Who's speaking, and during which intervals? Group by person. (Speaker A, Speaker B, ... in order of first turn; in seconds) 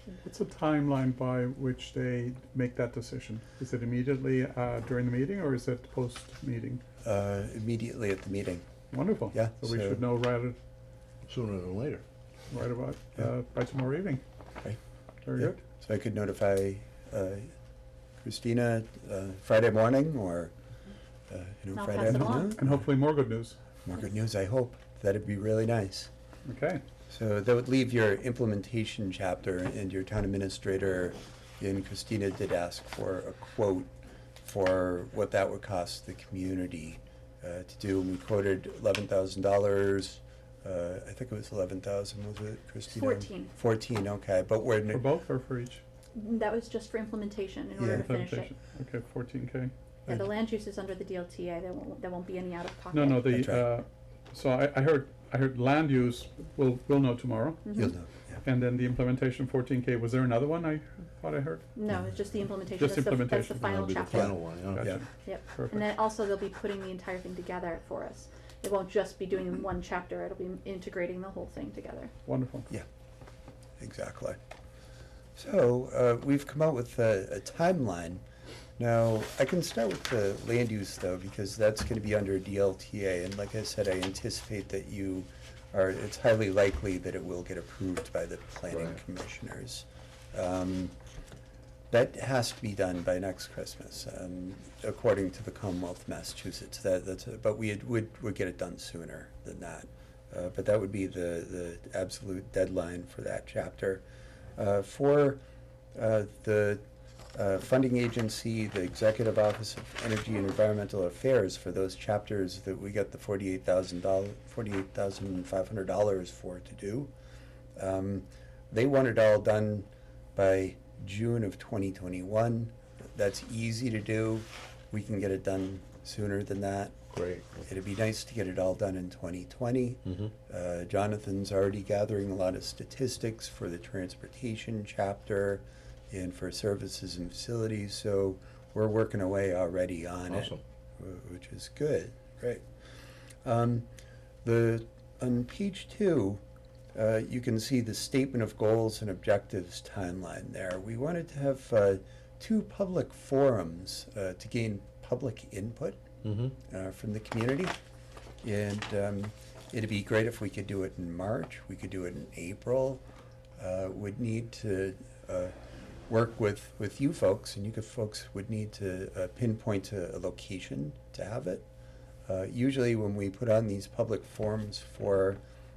Speaker A: 0.2-6.8, 8.9-10.6, 12.5-14.2, 15.2-15.5, 22.0-23.6, 26.4-26.8, 44.9-45.8, 47.9-49.7, 52.9-57.7, 58.4-61.6, 62.8-63.8, 64.8-65.9, 72.3-72.7
Speaker B: 7.0-8.6, 9.3-10.0, 15.4-17.5, 18.2-20.5, 21.3-22.8, 23.8-26.1, 27.1-33.9, 34.4-45.0, 47.8-48.1, 53.3-53.7, 57.7-58.4, 64.2-65.0, 73.8-74.4, 75.4-78.2, 78.8-91.0, 91.9-104.0, 104.6-105.4, 106.0-106.8, 107.3-117.1, 117.8-127.0, 127.6-142.6, 143.4-143.9, 144.4-146.4, 146.9-156.0, 156.7-157.8, 158.4-163.0, 163.6-165.6, 166.1-171.7, 172.3-175.4
Speaker C: 11.2-12.0, 63.7-64.9, 88.7-89.0, 127.1-127.6, 130.1-130.3, 140.3-140.6, 156.2-156.6
Speaker D: 21.7-22.6, 42.9-43.5, 46.1-48.5, 50.1-53.3, 57.6-57.9, 61.8-64.4, 65.2-72.1